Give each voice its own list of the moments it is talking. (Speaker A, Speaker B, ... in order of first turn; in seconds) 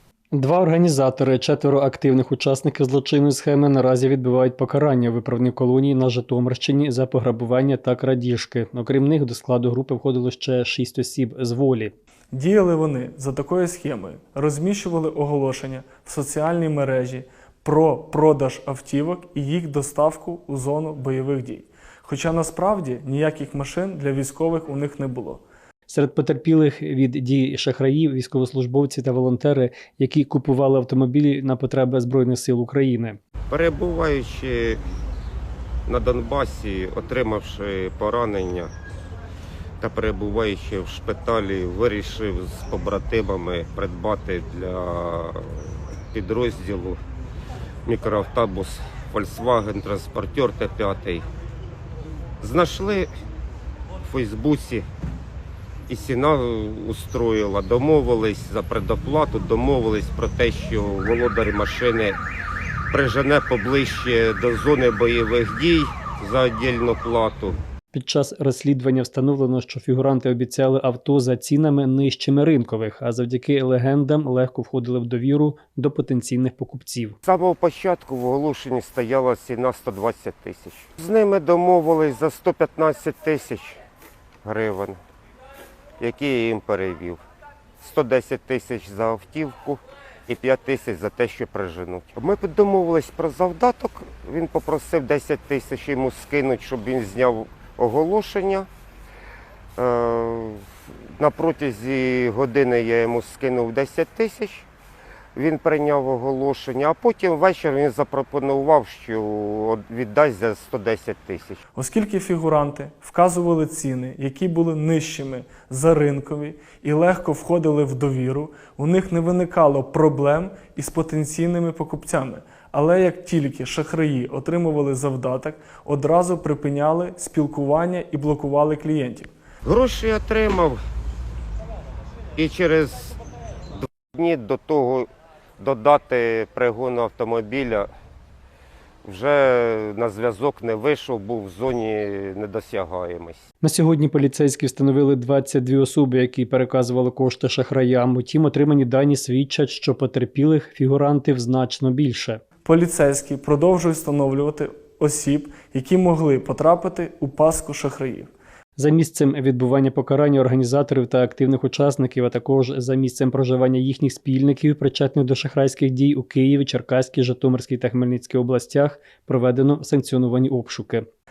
Speaker A: 0.3-11.9, 25.9-33.2, 67.9-77.2, 143.6-152.4, 158.8-171.1
Speaker B: 12.3-25.4, 111.7-129.3, 152.6-158.3
Speaker C: 33.5-34.8, 35.9-38.7, 39.8-47.0, 47.9-51.2, 52.4-53.1, 54.0-54.8, 55.9-62.2, 62.9-67.6, 77.2-83.8, 84.4-85.0, 86.0-87.2, 87.8-98.7, 99.8-100.6, 101.2-104.7, 105.3-111.6, 129.6-130.8, 132.3-133.2, 133.8-135.1, 135.6-137.9, 139.0-143.4